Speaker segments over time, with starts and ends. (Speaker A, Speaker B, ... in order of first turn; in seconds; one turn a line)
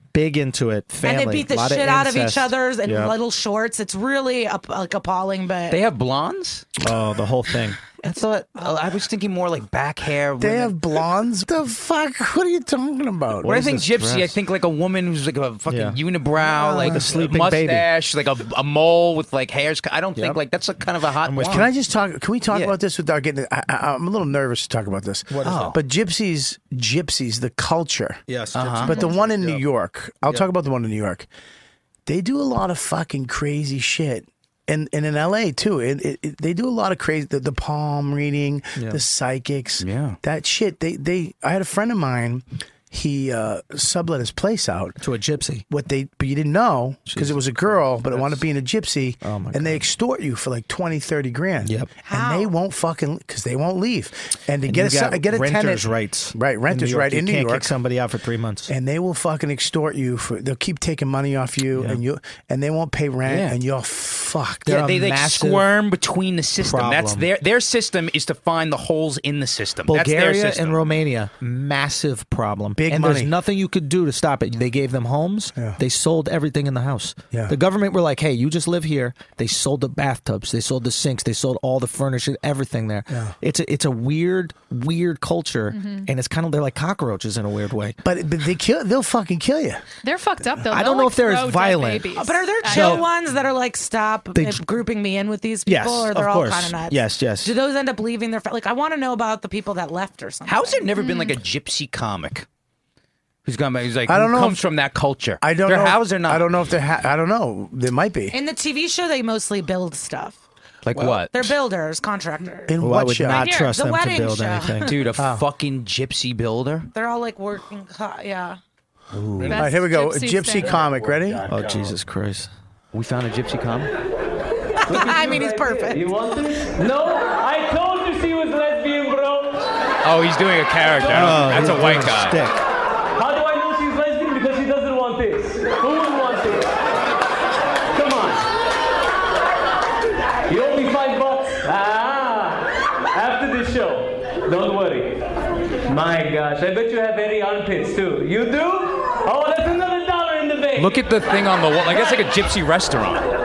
Speaker A: 0.1-3.1
Speaker B: 1.0-5.8
Speaker C: 5.7-6.7
Speaker A: 6.8-7.8
Speaker C: 8.0-10.8
Speaker B: 8.6-8.9
Speaker D: 10.4-13.8
Speaker C: 13.4-21.7
Speaker A: 13.5-14.3
Speaker A: 15.7-16.0
Speaker D: 16.5-17.0
Speaker A: 16.8-17.9
Speaker A: 21.3-21.7
Speaker D: 21.5-28.2
Speaker A: 25.3-25.8
Speaker C: 25.4-25.8
Speaker A: 28.3-29.6
Speaker C: 28.6-29.0
Speaker D: 28.8-31.3
Speaker D: 32.1-45.0
Speaker A: 38.8-39.0
Speaker C: 39.8-40.2
Speaker A: 45.0-45.6
Speaker D: 45.7-57.7
Speaker A: 47.1-47.4
Speaker A: 48.1-48.4
Speaker A: 49.2-49.8
Speaker A: 51.6-51.9
Speaker B: 52.1-52.5
Speaker A: 54.7-58.7
Speaker D: 58.7-64.7
Speaker A: 61.8-62.0
Speaker C: 63.3-63.6
Speaker A: 64.7-65.7
Speaker C: 64.7-70.8
Speaker A: 66.6-67.3
Speaker A: 69.9-88.0
Speaker D: 72.8-73.3
Speaker E: 85.7-86.1
Speaker D: 88.0-89.8
Speaker E: 90.0-93.1
Speaker A: 90.7-92.1
Speaker B: 92.1-100.9
Speaker A: 92.7-93.0
Speaker A: 94.3-94.6
Speaker A: 95.7-97.5
Speaker C: 100.5-102.5
Speaker E: 101.0-101.3
Speaker C: 103.5-106.5
Speaker D: 104.1-104.7
Speaker D: 105.4-108.4
Speaker B: 108.3-110.4
Speaker C: 110.8-111.5
Speaker B: 111.3-115.1
Speaker D: 112.7-113.5
Speaker A: 112.8-114.9
Speaker C: 114.9-116.9
Speaker D: 115.2-115.5
Speaker B: 116.9-118.6
Speaker C: 119.1-119.7
Speaker E: 119.4-120.9
Speaker D: 119.5-121.5
Speaker A: 121.5-122.5
Speaker C: 122.9-123.9
Speaker F: 124.9-129.7
Speaker B: 124.9-126.1
Speaker C: 130.0-132.4
Speaker A: 131.1-132.6
Speaker F: 133.2-136.7
Speaker F: 137.9-138.5
Speaker F: 140.5-145.2
Speaker F: 145.9-150.9
Speaker C: 150.8-153.3